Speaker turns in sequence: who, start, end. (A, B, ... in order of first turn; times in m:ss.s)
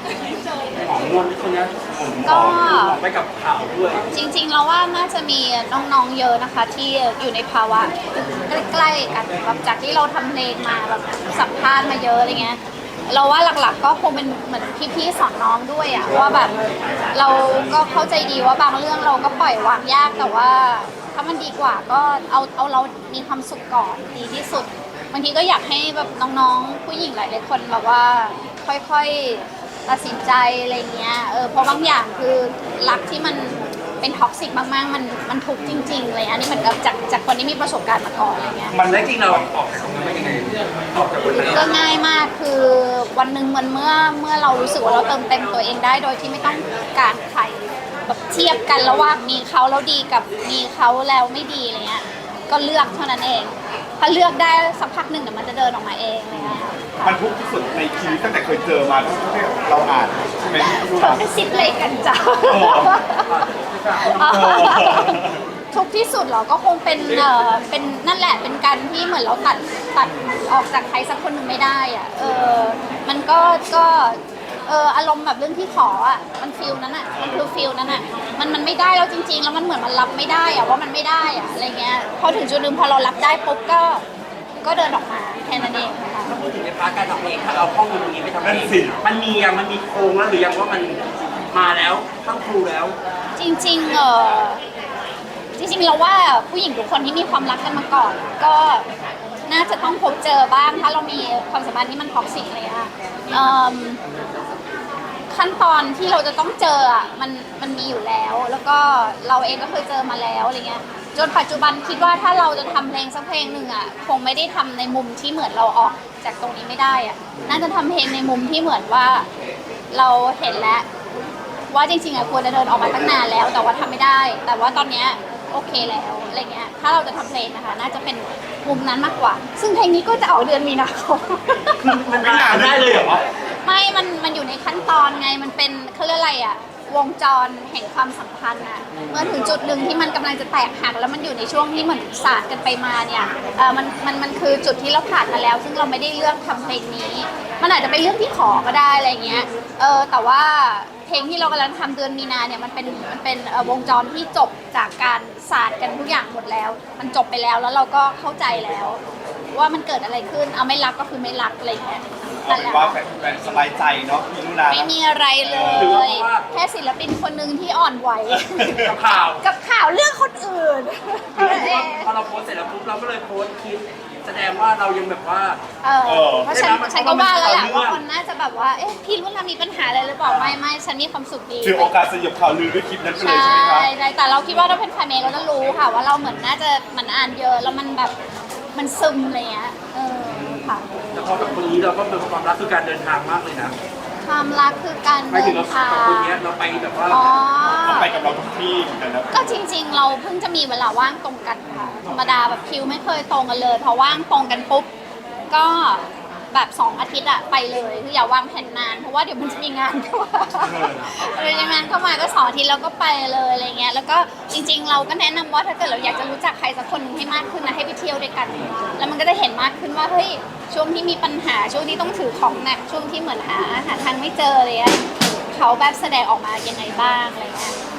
0:00.7-0:04.0 A
0:02.2-0:03.0 B
0:04.1-0:16.5 B
0:17.1-0:38.8 B
0:38.7-0:39.5 C
0:38.7-0:41.8 A
0:41.5-0:57.2 B
0:44.6-0:45.6 A
0:56.3-1:01.2 C
1:00.5-1:03.3 B
1:02.5-1:03.0 C
1:03.2-1:04.8 A
1:04.0-1:24.0 B
1:04.3-1:05.4 C
1:10.0-1:10.3 C
1:17.1-1:17.5 C
1:24.6-1:26.3 B
1:26.2-1:33.0 A
1:28.4-1:29.0 C
1:33.4-1:34.6 B
1:35.6-1:38.8 B
1:39.5-1:44.0 B
1:45.3-1:59.3 B
1:59.9-2:00.8 B
2:01.7-2:11.9 B
2:11.8-2:13.2 A
2:12.2-2:13.1 C
2:13.6-2:39.0 B
2:19.0-2:19.2 A
2:39.5-2:43.0 B
2:42.4-2:44.9 C
2:44.7-2:52.1 B
2:45.4-2:46.0 C
2:45.7-2:46.4 A
2:48.3-2:48.9 C
2:48.8-2:49.4 A
2:51.3-2:55.6 A
2:55.8-3:02.0 B
2:56.0-2:56.5 C
2:56.5-2:58.0 A
3:01.6-3:03.9 C
3:03.2-3:08.1 B
3:08.7-3:10.9 B
3:10.3-3:13.8 A
3:14.2-3:16.4 B
3:15.3-3:17.3 A
3:17.1-3:18.1 B
3:17.8-3:19.5 C
3:19.3-3:24.9 B
3:25.5-3:47.8 B
3:30.6-3:31.0 C
3:30.7-3:31.8 A